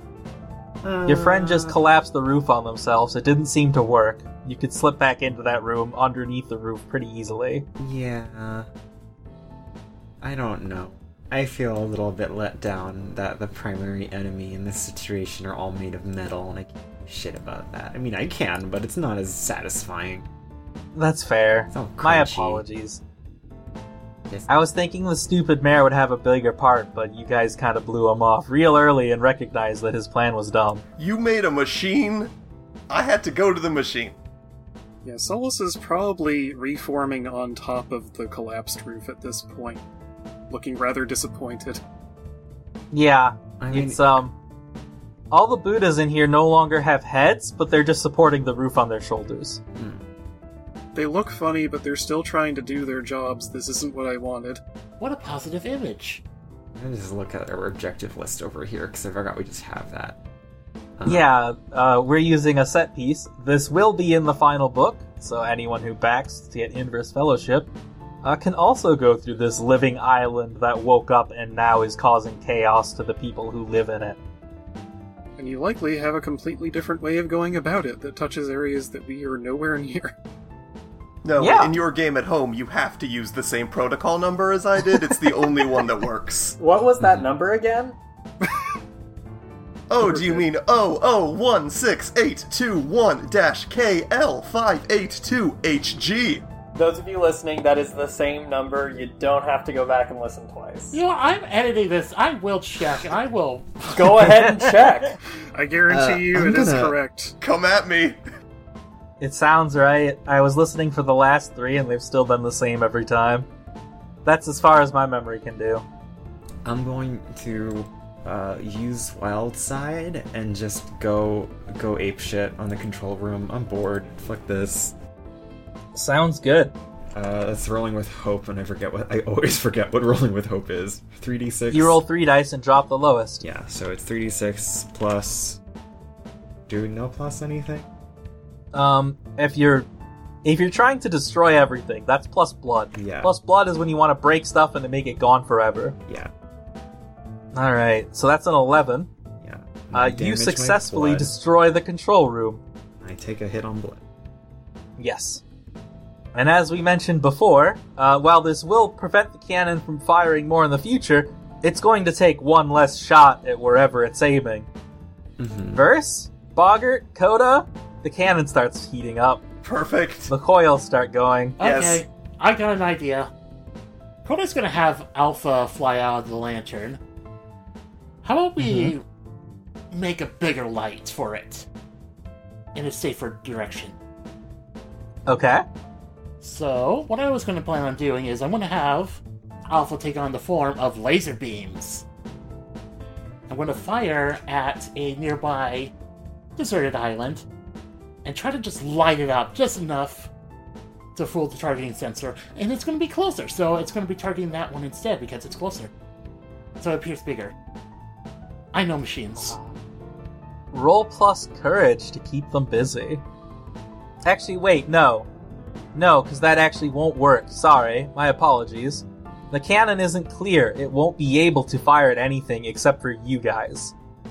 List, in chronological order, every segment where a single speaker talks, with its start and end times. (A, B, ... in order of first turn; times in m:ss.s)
0:00.8-0:01.8 A
0:01.1-0:07.7 B
0:07.8-0:08.7 A
0:10.2-0:20.3 A
0:21.0-0:23.0 B
0:21.7-0:22.6 A
0:24.5-0:30.8 B
0:31.0-0:32.3 C
0:32.9-0:34.2 C
0:35.0-0:39.8 D
0:40.5-0:41.8 D
0:42.9-0:44.3 B
0:43.6-0:44.2 A
0:45.3-0:49.6 B
0:49.8-0:50.0 A
0:50.9-0:54.6 D
0:55.0-0:56.2 E
0:56.8-1:00.2 A
1:01.0-1:01.2 A
1:01.1-1:07.7 B
1:08.2-1:14.2 B
1:15.4-1:20.2 D
1:21.2-1:26.6 C
1:21.4-1:21.7 B
1:26.6-1:28.0 F
1:29.9-1:36.4 C
1:30.0-1:30.4 D
1:36.8-1:41.0 F
1:40.9-1:44.1 E
1:43.9-1:45.2 F
1:44.4-1:44.7 B
1:45.5-1:47.4 D
1:45.9-1:47.0 A
1:47.4-1:48.2 C
1:49.2-1:53.5 B
1:54.2-1:55.8 B
1:56.6-2:05.0 A
2:06.0-2:06.8 B
2:07.1-2:12.0 A
2:11.7-2:13.4 B
2:13.4-2:15.6 A
2:16.7-2:17.9 A
2:18.7-2:19.9 B
2:20.4-2:26.0 B
2:23.0-2:23.3 A
2:27.5-2:29.1 B
2:29.4-2:31.3 A
2:29.9-2:32.6 B
2:33.0-2:34.0 A
2:35.0-2:35.4 B
2:36.3-2:44.7 B
2:45.4-2:45.9 A
2:45.7-2:49.4 B
2:49.6-2:50.3 C
2:50.3-2:51.6 B
2:51.6-2:52.0 C
2:51.6-2:53.3 E
2:54.2-2:57.0 E
2:58.2-2:59.0 E
2:58.6-2:58.9 B
2:59.9-3:01.7 E
3:02.8-3:04.0 E
3:05.3-3:05.6 B
3:06.4-3:12.0 E
3:13.5-3:15.9 E
3:16.6-3:17.5 E
3:18.2-3:20.3 E
3:21.2-3:25.9 E
3:26.8-3:27.5 E
3:28.7-3:29.6 E
3:29.4-3:29.7 B
3:30.7-3:33.2 B
3:34.2-3:35.3 B
3:36.0-3:44.0 B